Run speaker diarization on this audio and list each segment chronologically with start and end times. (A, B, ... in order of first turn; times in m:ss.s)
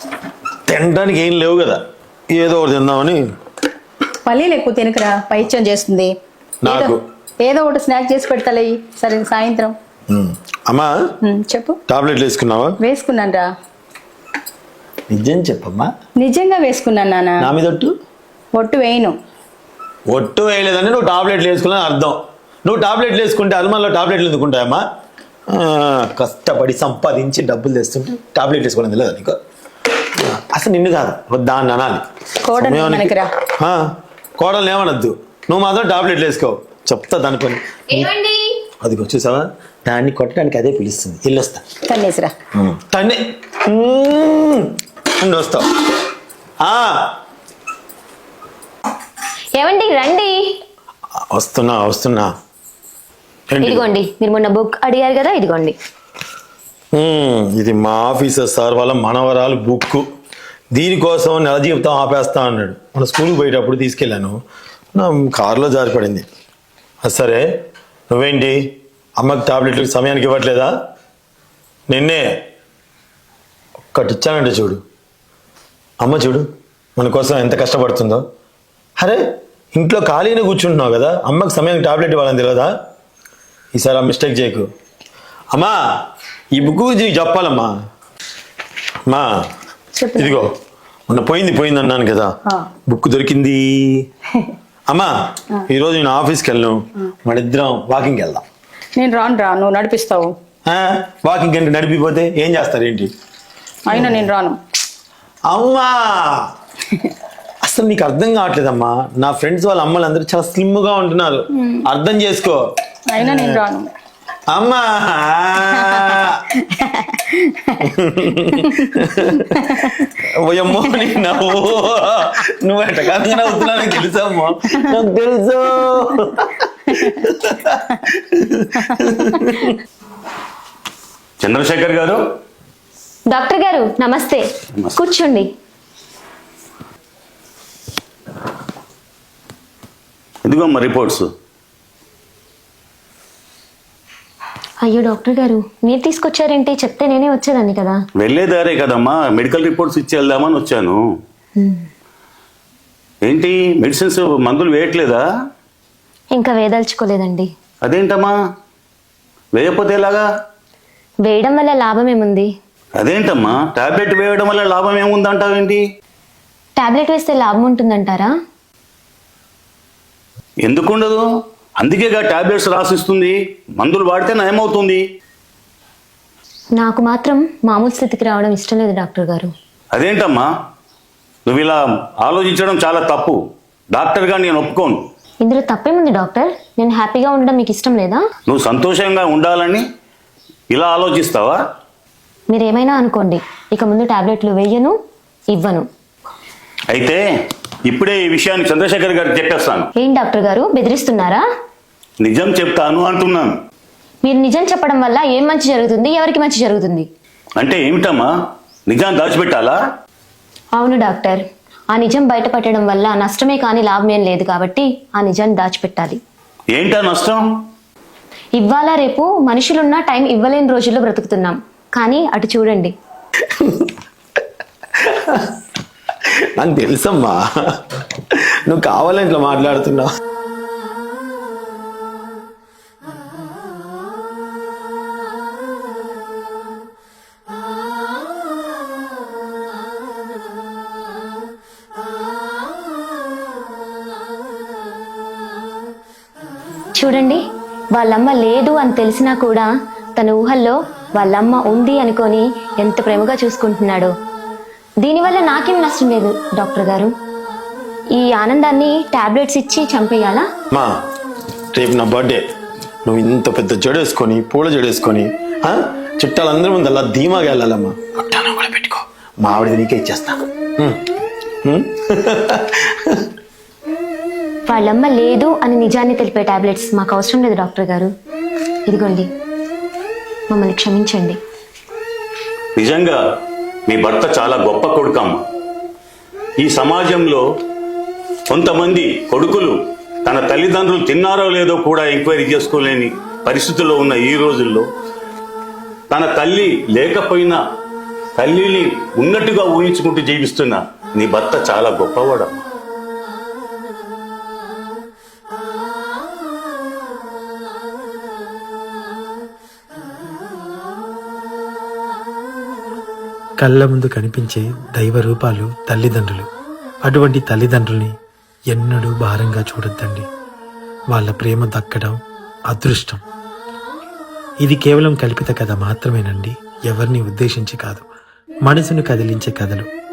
0:00.7-0:03.2 A
0:04.2-0:06.1 B
0:06.6-0:07.0 A
0:06.6-0:09.8 B
0:10.1-0:10.9 A
0:11.2-0:11.8 B
0:11.9-0:12.8 A
0:12.8-0:13.5 B
0:15.1-0:15.9 A
0:16.2-0:17.4 B
0:17.4-0:17.9 A
0:18.5-0:19.2 B
0:20.1-0:24.8 A
0:25.5-0:29.4 A
0:30.2-0:32.0 A
0:32.4-0:33.3 B
0:32.6-0:33.8 A
0:34.4-0:38.1 A
0:37.9-0:38.5 C
0:38.8-0:41.6 A
0:41.8-0:42.3 B
0:42.5-0:45.6 A
0:46.6-0:47.1 A
0:49.6-0:50.4 C
0:51.3-0:52.3 A
0:53.5-0:53.9 A
0:53.6-0:55.7 C
0:56.9-1:00.0 A
1:00.7-1:04.4 A
1:05.0-1:06.2 A
1:07.0-1:07.4 A
1:08.1-1:08.6 A
1:09.2-1:10.7 A
1:11.9-1:12.2 A
1:13.9-1:14.8 A
1:16.0-1:16.4 A
1:17.0-1:18.2 A
1:19.7-1:22.7 A
1:23.7-1:24.7 A
1:25.5-1:25.8 A
1:26.5-1:27.7 A
1:30.0-1:30.4 B
1:30.1-1:30.5 A
1:31.1-1:32.3 A
1:32.9-1:34.0 A
1:34.9-1:38.4 A
1:39.0-1:40.3 B
1:40.7-1:43.1 A
1:43.9-1:44.6 B
1:43.9-1:44.3 A
1:45.5-1:46.4 A
1:47.6-1:52.6 A
1:53.1-1:53.9 B
1:53.2-1:53.6 A
1:54.5-1:56.6 A
1:56.7-1:57.8 B
1:57.8-2:09.8 A
2:11.4-2:12.2 D
2:13.3-2:14.4 C
2:14.9-2:15.5 C
2:20.4-2:21.3 D
2:24.8-2:28.0 C
2:28.2-2:31.0 D
2:31.6-2:31.8 C
2:33.2-2:35.2 D
2:36.3-2:37.5 C
2:37.8-2:38.3 D
2:39.5-2:40.2 D
2:41.2-2:42.5 C
2:43.0-2:45.8 D
2:46.8-2:48.3 C
2:50.6-2:51.2 D
2:51.8-2:55.0 D
2:56.8-2:59.5 C
2:59.9-3:00.5 D
3:01.5-3:03.4 D
3:03.9-3:05.0 D
3:05.4-3:08.2 C
3:08.5-3:09.8 D
3:10.7-3:11.6 D
3:12.5-3:14.9 C
3:15.5-3:15.9 C
3:16.9-3:17.2 D
3:17.8-3:19.9 D
3:20.0-3:21.4 C
3:22.2-3:23.5 D
3:24.2-3:27.1 C
3:27.6-3:28.3 D
3:28.9-3:29.8 D
3:30.8-3:36.2 C
3:36.7-3:37.4 D
3:38.6-3:42.9 C
3:43.5-3:43.9 A
3:45.0-3:45.5 A
3:46.6-3:47.8 A
3:48.3-3:50.1 A
4:07.0-4:07.4 C
4:07.9-4:14.1 C
4:15.0-4:17.1 C
4:18.2-4:20.4 C
4:21.7-4:22.4 A
4:23.0-4:31.0 A
4:31.6-4:33.3 A
4:34.7-4:38.1 C
4:38.9-4:39.3 C
4:40.5-4:41.4 C
4:42.8-4:43.2 D
4:43.9-4:45.4 D
4:46.6-4:47.4 D
4:48.5-4:54.9 D
4:56.1-4:57.6 D
4:58.4-5:02.6 D
5:13.6-5:16.5 E
5:17.0-5:18.1 E
5:18.7-5:20.3 E
5:21.1-5:23.2 E
5:24.6-5:28.0 E
5:28.6-5:29.9 E